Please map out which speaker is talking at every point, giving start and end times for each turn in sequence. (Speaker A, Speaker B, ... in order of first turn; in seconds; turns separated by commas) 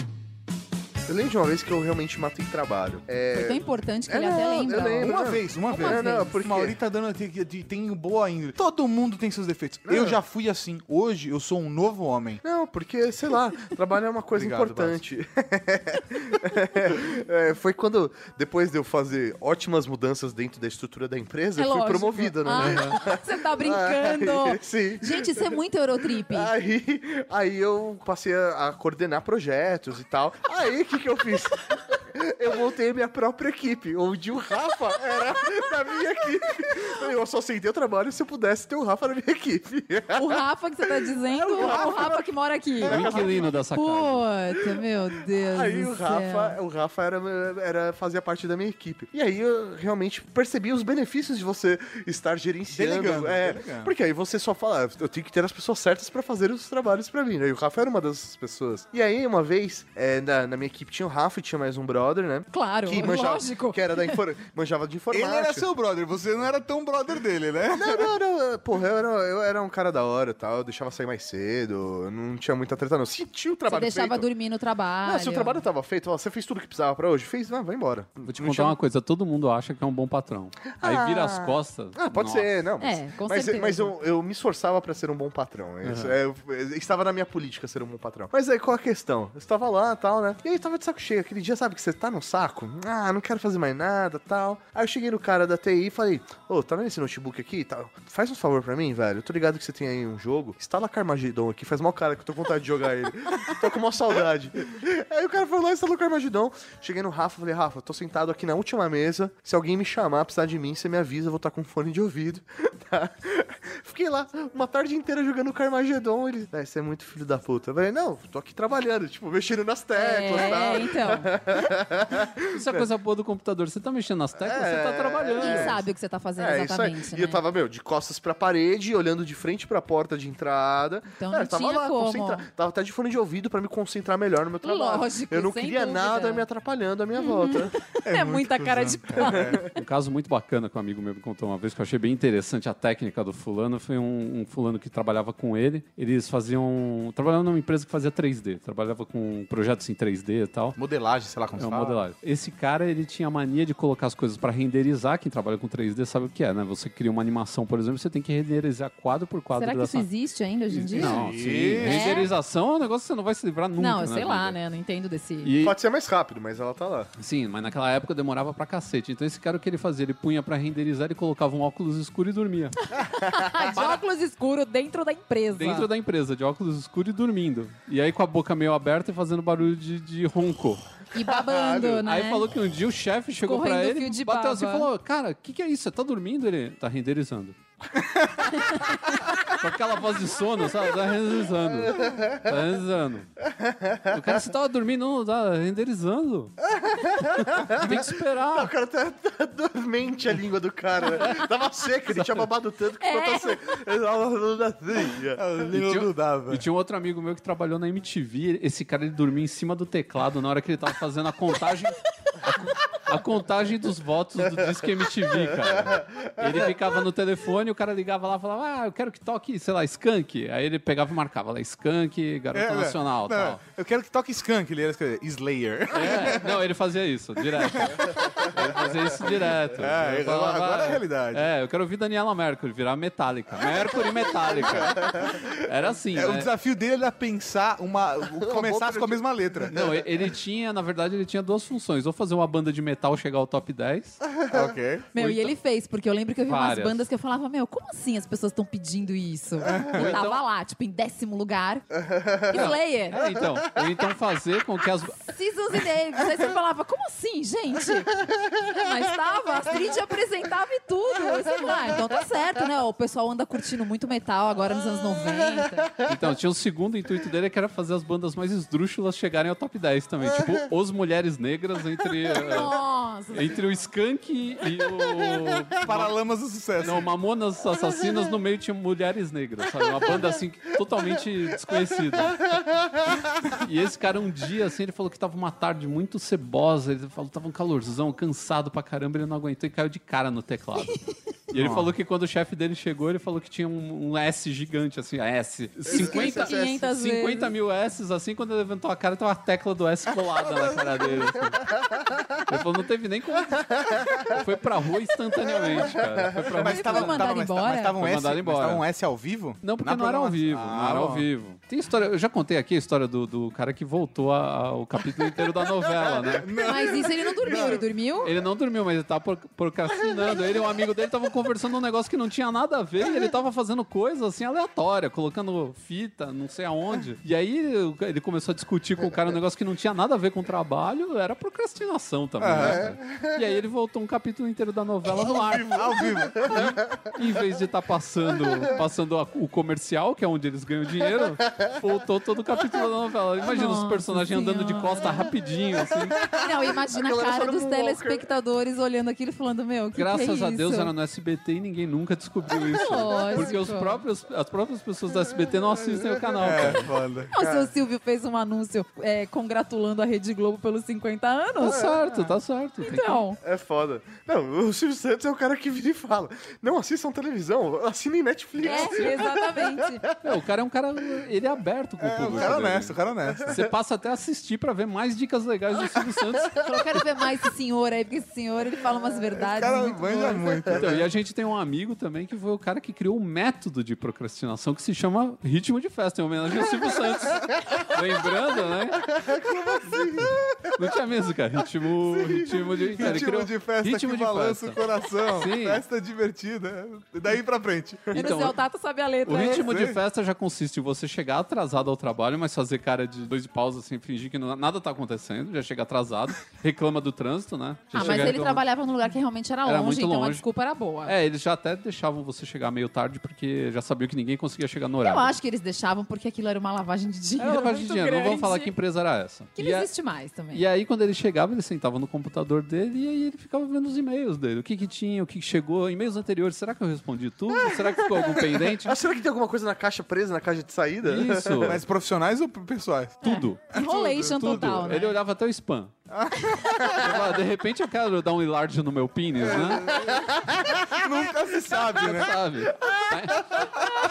Speaker A: 1.1-6.8, Speaker B: 3.3-6.3, Speaker C: 4.9-12.4, Speaker A: 9.9-10.2, Speaker A: 12.4-25.6, Speaker C: 14.3-15.0, Speaker B: 21.6-26.5, Speaker D: 22.6-22.9, Speaker A: 26.3-40.4, Speaker B: 40.1-46.5, Speaker A: 41.3-42.2, Speaker C: 41.5-42.2, Speaker A: 42.8-43.5, Speaker D: 42.8-44.2, Speaker C: 42.9-43.5, Speaker A: 45.5-65.7, Speaker C: 52.7-53.9, Speaker B: 62.5-64.1, Speaker C: 65.1-68.1, Speaker A: 67.7-74.2, Speaker B: 73.7-75.6, Speaker A: 75.0-78.8, Speaker D: 78.2-82.5, Speaker A: 80.7-122.8, Speaker B: 82.8-83.9, Speaker D: 85.8-86.2, Speaker B: 119.9-121.3, Speaker D: 122.5-125.8, Speaker A: 124.4-125.8, Speaker B: 125.4-127.4, Speaker A: 126.4-137.7, Speaker B: 131.1-132.5, Speaker B: 134.6-136.4, Speaker B: 137.2-139.5, Speaker C: 138.0-139.6, Speaker A: 139.2-139.7, Speaker D: 139.7-150.8, Speaker C: 150.8-152.0, Speaker D: 151.6-160.1, Speaker B: 159.5-162.3, Speaker D: 160.7-164.6, Speaker C: 160.9-162.3, Speaker B: 163.8-165.5, Speaker D: 165.4-165.8, Speaker A: 165.6-167.1, Speaker D: 167.2-172.8, Speaker B: 172.9-175.9, Speaker A: 173.2-173.4, Speaker D: 175.5-180.8, Speaker B: 181.1-182.4, Speaker A: 181.3-182.0, Speaker D: 182.0-187.6, Speaker B: 183.4-184.9, Speaker D: 189.4-193.3, Speaker A: 191.9-192.5, Speaker A: 193.5-194.3, Speaker D: 194.1-196.5, Speaker A: 196.6-205.4, Speaker D: 197.4-198.7, Speaker D: 201.1-201.4, Speaker D: 202.1-202.5, Speaker B: 203.0-203.5, Speaker C: 205.3-206.6, Speaker D: 205.7-223.6, Speaker A: 215.8-216.5, Speaker C: 222.5-226.5, Speaker D: 225.9-236.5, Speaker C: 227.6-228.7, Speaker C: 229.7-231.4, Speaker A: 234.5-235.3, Speaker C: 234.5-235.5, Speaker C: 236.1-239.7, Speaker A: 238.4-240.0, Speaker D: 239.7-244.2, Speaker C: 244.5-245.1, Speaker B: 245.1-251.8, Speaker D: 245.2-245.5, Speaker D: 246.5-247.0, Speaker C: 249.6-250.1, Speaker D: 249.8-250.4, Speaker B: 252.5-253.3, Speaker D: 252.5-255.3, Speaker B: 255.2-258.1, Speaker B: 258.6-265.9, Speaker D: 266.0-272.7, Speaker B: 272.5-273.7, Speaker D: 273.3-276.1, Speaker C: 275.8-277.1, Speaker D: 276.8-282.6, Speaker D: 283.5-291.0, Speaker D: 291.5-301.6, Speaker C: 291.5-291.9, Speaker A: 295.9-296.5, Speaker B: 295.9-297.5, Speaker D: 302.5-307.2, Speaker C: 306.6-311.3, Speaker B: 306.6-307.9, Speaker D: 308.0-308.8, Speaker D: 309.6-316.6, Speaker C: 316.3-317.9, Speaker B: 316.6-318.3, Speaker D: 318.2-336.5, Speaker C: 332.4-332.9, Speaker A: 335.1-336.7, Speaker C: 335.7-336.8, Speaker D: 337.1-346.3, Speaker B: 343.4-345.3, Speaker A: 346.2-348.2, Speaker B: 346.3-350.9, Speaker D: 349.9-356.9, Speaker B: 352.8-354.0, Speaker C: 356.4-357.3, Speaker B: 357.3-361.8, Speaker A: 357.4-357.7, Speaker D: 361.6-363.2, Speaker A: 361.6-362.3, Speaker B: 362.9-363.4, Speaker A: 363.4-369.8, Speaker D: 368.6-369.2, Speaker B: 368.6-370.0, Speaker D: 370.2-376.6, Speaker C: 372.0-373.5, Speaker B: 376.6-380.7, Speaker C: 379.3-381.1, Speaker D: 380.7-389.1, Speaker A: 389.0-390.4, Speaker D: 390.7-394.8, Speaker A: 392.1-393.2, Speaker C: 392.9-398.1, Speaker D: 395.4-395.8, Speaker D: 398.1-398.6, Speaker B: 398.1-399.7, Speaker D: 399.2-408.6, Speaker C: 399.6-400.0, Speaker B: 407.9-411.1, Speaker A: 408.0-408.3, Speaker D: 409.6-410.4, Speaker D: 411.0-415.3, Speaker B: 415.0-418.7, Speaker D: 417.4-419.9, Speaker B: 419.6-420.6, Speaker D: 420.5-429.0, Speaker A: 428.2-431.8, Speaker D: 431.0-431.8, Speaker C: 431.6-435.0, Speaker D: 433.2-433.7, Speaker B: 433.2-435.1, Speaker D: 434.4-435.9, Speaker C: 436.1-437.1, Speaker D: 436.9-440.0, Speaker A: 439.5-440.8, Speaker C: 440.9-442.4, Speaker D: 441.7-443.7